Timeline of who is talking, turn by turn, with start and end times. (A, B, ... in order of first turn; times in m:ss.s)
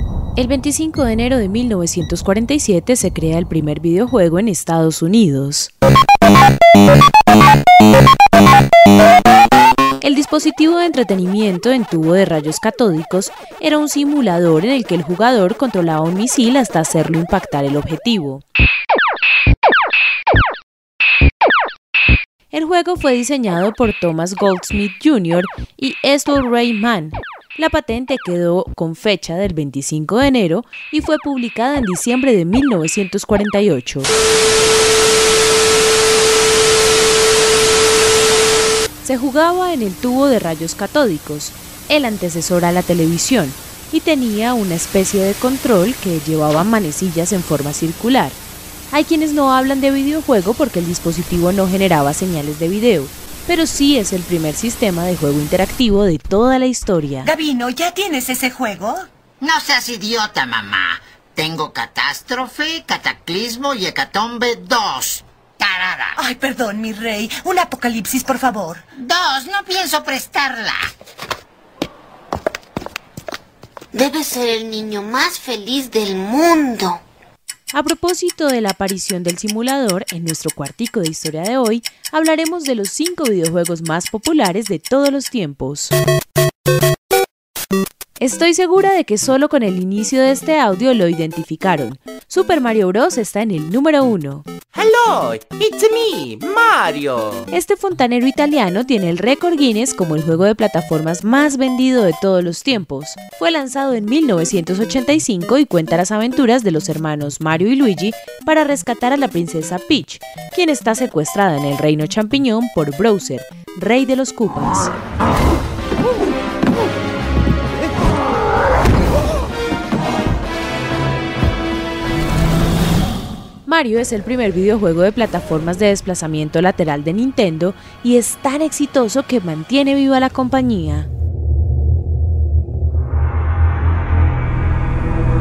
0:00.4-0:05.7 A
0:10.0-0:18.4 A
0:22.5-0:34.1 A
0:39.0-0:48.4 A
0:48.9-0:57.3 A
0:57.2-0:59.1 B
0:59.4-1:06.2 C
1:06.2-1:08.8 B
1:09.0-1:10.9 C
1:14.0-1:16.8 D
1:17.7-1:25.9 A
1:28.2-1:34.4 A
1:34.7-1:37.4 E
1:37.5-1:54.9 A
2:03.6-2:11.1 A